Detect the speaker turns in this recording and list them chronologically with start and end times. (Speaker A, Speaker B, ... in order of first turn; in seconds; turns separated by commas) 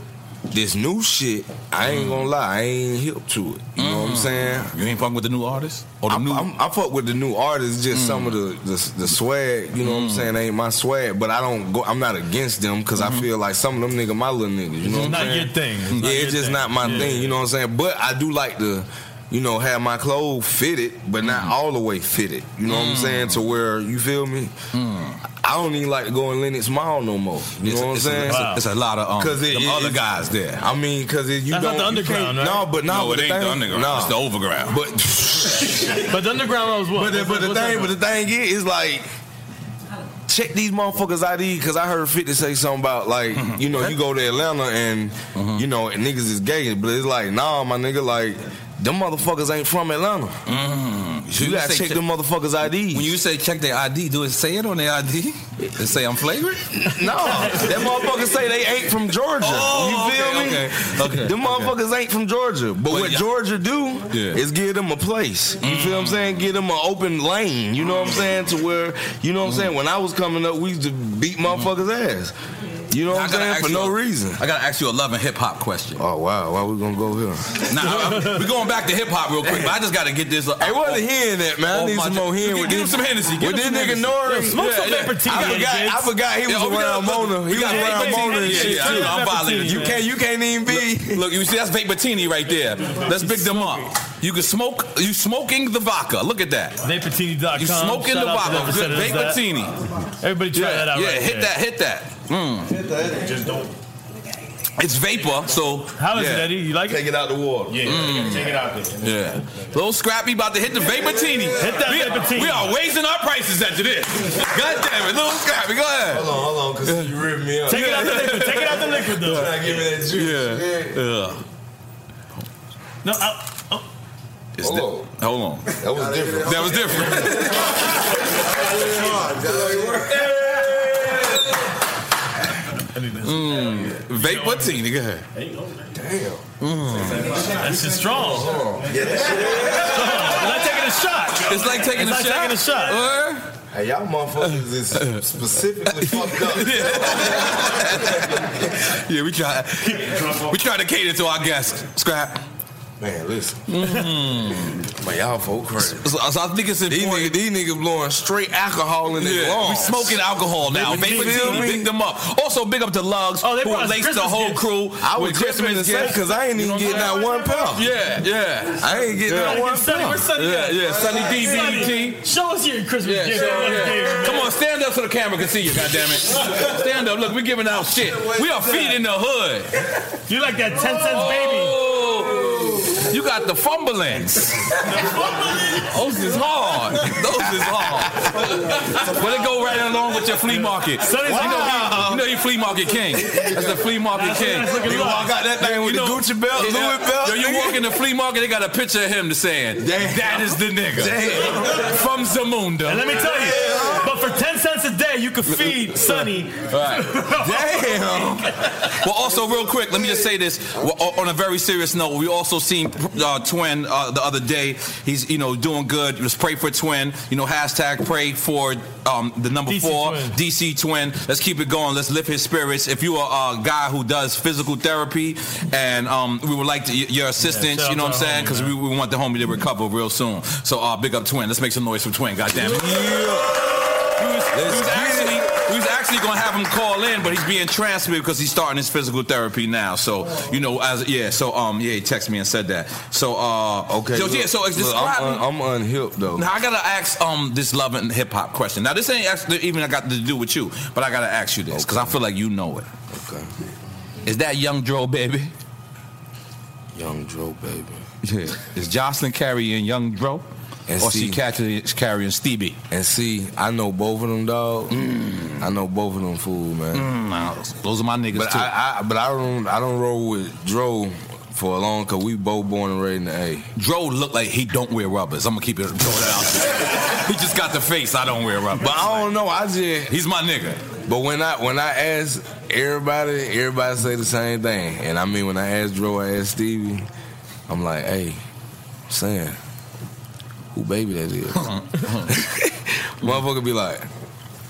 Speaker A: 0.5-4.7, Speaker B: 1.8-2.3, Speaker B: 3.8-6.5, Speaker A: 6.1-24.5, Speaker B: 7.9-8.4, Speaker B: 9.8-10.3, Speaker B: 13.0-13.3, Speaker B: 14.9-16.3, Speaker C: 14.9-17.4, Speaker B: 16.8-17.1, Speaker B: 21.2-21.5, Speaker B: 22.7-23.4, Speaker B: 24.7-25.2, Speaker A: 25.4-28.6, Speaker B: 27.6-30.6, Speaker C: 28.3-28.6, Speaker A: 29.2-30.0, Speaker A: 30.6-36.0, Speaker C: 31.5-32.7, Speaker B: 32.9-34.8, Speaker C: 36.1-38.0, Speaker A: 36.9-39.1, Speaker A: 40.3-50.4, Speaker B: 43.4-44.0, Speaker B: 45.4-45.6, Speaker B: 50.5-52.0, Speaker A: 51.4-53.1, Speaker B: 52.8-57.7, Speaker A: 56.7-72.3, Speaker B: 59.4-61.7, Speaker B: 62.9-63.2, Speaker B: 64.1-64.4, Speaker B: 65.6-66.4, Speaker B: 69.5-69.7, Speaker A: 72.9-74.4, Speaker B: 73.1-76.0, Speaker A: 76.0-77.7, Speaker B: 77.7-81.1, Speaker C: 77.9-78.4, Speaker A: 79.4-79.8, Speaker A: 80.6-84.7, Speaker B: 81.7-85.9, Speaker C: 84.3-86.1, Speaker A: 85.2-91.3, Speaker B: 86.5-90.0, Speaker C: 87.6-90.0, Speaker B: 90.7-96.8, Speaker C: 92.9-93.8, Speaker C: 96.8-99.4, Speaker B: 97.6-99.8, Speaker C: 100.2-101.5, Speaker B: 100.5-102.7, Speaker B: 104.8-106.0, Speaker C: 106.0-107.0, Speaker A: 106.1-108.2, Speaker C: 107.8-108.9, Speaker B: 107.8-116.3, Speaker A: 111.2-111.5, Speaker C: 111.6-112.7, Speaker A: 116.1-121.0, Speaker B: 116.9-117.1, Speaker B: 117.7-119.4, Speaker C: 117.7-119.5, Speaker B: 120.1-121.4, Speaker C: 123.0-123.8, Speaker B: 124.6-125.8, Speaker A: 124.6-125.0, Speaker A: 125.8-127.8, Speaker B: 126.4-127.8, Speaker A: 128.6-131.3, Speaker C: 132.9-134.8, Speaker B: 133.2-135.2, Speaker A: 135.9-136.4, Speaker B: 136.6-137.5, Speaker C: 137.4-138.7, Speaker A: 138.8-140.4, Speaker C: 139.7-143.0, Speaker B: 139.8-140.4, Speaker B: 141.4-143.5, Speaker A: 143.7-148.4, Speaker B: 144.4-145.2, Speaker B: 145.9-152.4, Speaker A: 153.0-153.7, Speaker B: 153.7-154.8, Speaker A: 154.8-156.0, Speaker B: 155.9-157.3, Speaker A: 156.9-160.2, Speaker B: 159.2-172.2, Speaker A: 160.7-161.9, Speaker C: 160.8-161.7, Speaker C: 163.4-164.7, Speaker A: 165.0-167.9, Speaker C: 166.8-167.6, Speaker A: 168.8-170.3, Speaker C: 169.3-174.5, Speaker B: 173.1-179.7, Speaker C: 180.3-181.8, Speaker B: 180.9-184.8, Speaker A: 182.3-183.0, Speaker B: 185.7-203.9, Speaker A: 187.8-188.1, Speaker C: 190.5-192.0, Speaker A: 191.1-192.3, Speaker A: 193.2-193.7, Speaker C: 194.1-195.4, Speaker A: 194.8-197.9, Speaker A: 199.8-202.0, Speaker C: 202.8-208.3, Speaker A: 203.6-204.0, Speaker B: 206.7-207.2, Speaker A: 207.4-208.5, Speaker B: 208.9-233.6, Speaker C: 219.7-220.4, Speaker C: 227.4-228.8, Speaker A: 232.5-233.6, Speaker B: 234.2-245.5, Speaker A: 234.5-235.5, Speaker A: 243.9-246.5, Speaker B: 246.4-252.9, Speaker A: 251.7-252.2, Speaker A: 253.1-253.5, Speaker B: 254.2-255.5, Speaker A: 256.9-258.5, Speaker B: 258.5-260.4, Speaker A: 260.9-261.4, Speaker B: 261.0-262.8, Speaker A: 262.9-267.1, Speaker B: 264.9-265.6, Speaker B: 266.9-268.7, Speaker A: 268.3-273.7, Speaker B: 273.8-279.3, Speaker A: 278.8-280.1, Speaker B: 280.1-280.8, Speaker A: 281.1-287.1, Speaker A: 287.7-288.4, Speaker A: 289.1-289.6, Speaker A: 290.7-291.7, Speaker B: 291.6-292.3, Speaker A: 292.3-294.1